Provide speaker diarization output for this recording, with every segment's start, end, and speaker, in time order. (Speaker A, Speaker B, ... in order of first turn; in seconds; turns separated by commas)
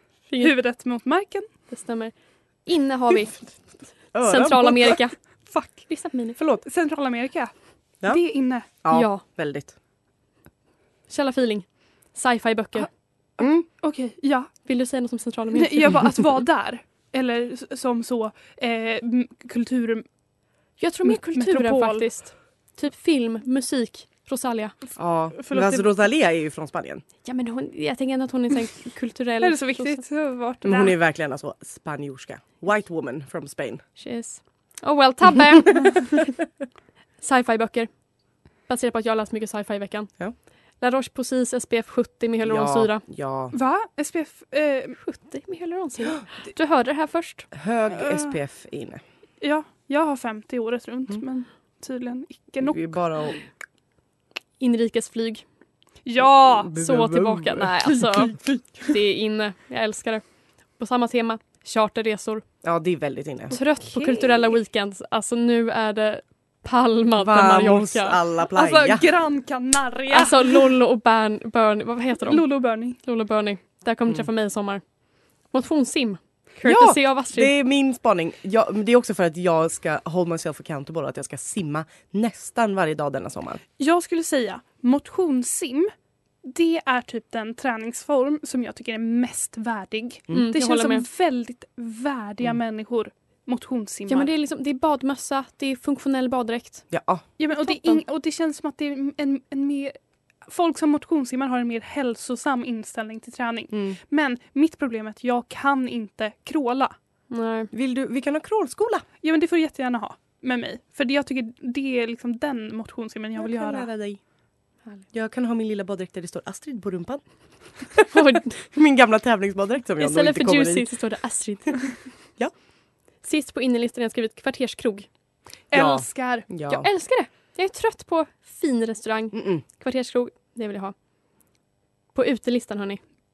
Speaker A: 0.3-0.5, Speaker B: 0.4-1.5, Speaker A: 1.7-2.1, Speaker A: 2.6-3.4, Speaker C: 4.1-5.0, Speaker A: 4.2-5.2, Speaker B: 5.5-5.9, Speaker A: 5.9-6.4, Speaker C: 6.4-6.6, Speaker B: 6.6-7.5, Speaker B: 8.0-8.7, Speaker C: 8.8-9.7, Speaker A: 8.9-9.2, Speaker A: 11.1-12.9, Speaker C: 13.4-13.7, Speaker B: 13.4-14.5, Speaker A: 14.7-16.1, Speaker B: 15.5-20.0, Speaker A: 20.8-24.8, Speaker B: 21.0-22.1, Speaker C: 25.0-27.0, Speaker B: 25.4-25.9, Speaker A: 27.2-30.0, Speaker B: 29.4-30.9, Speaker C: 30.6-33.8, Speaker A: 34.0-36.3, Speaker A: 37.2-37.9, Speaker A: 38.7-40.1, Speaker A: 40.8-43.0, Speaker C: 42.4-43.5, Speaker B: 43.5-45.0, Speaker A: 45.0-47.5, Speaker C: 47.5-49.0, Speaker B: 48.0-48.4, Speaker B: 49.4-53.0, Speaker C: 52.6-53.4, Speaker A: 54.6-55.4, Speaker B: 56.0-56.7, Speaker C: 56.5-58.6, Speaker A: 56.7-58.3, Speaker A: 58.9-60.2, Speaker A: 60.8-62.4, Speaker C: 62.6-63.6, Speaker A: 63.5-68.2, Speaker B: 63.9-64.4, Speaker C: 67.2-69.1, Speaker B: 68.5-70.7, Speaker A: 70.1-74.8, Speaker B: 72.2-73.0, Speaker A: 75.5-77.5, Speaker C: 76.6-83.6, Speaker B: 83.8-85.9, Speaker B: 86.4-94.3, Speaker A: 90.3-91.0, Speaker A: 94.1-96.8, Speaker C: 96.9-97.2, Speaker B: 97.4-106.9, Speaker A: 97.6-98.0, Speaker C: 103.7-104.0, Speaker A: 107.3-107.7, Speaker C: 107.7-109.0, Speaker B: 109.2-113.9, Speaker C: 113.4-114.2, Speaker C: 115.1-117.2, Speaker C: 117.9-120.9, Speaker A: 118.1-118.6, Speaker A: 120.0-121.9, Speaker A: 123.2-125.1, Speaker B: 125.7-126.5, Speaker C: 125.7-126.9, Speaker A: 126.7-130.9, Speaker C: 129.3-129.6, Speaker A: 132.1-133.0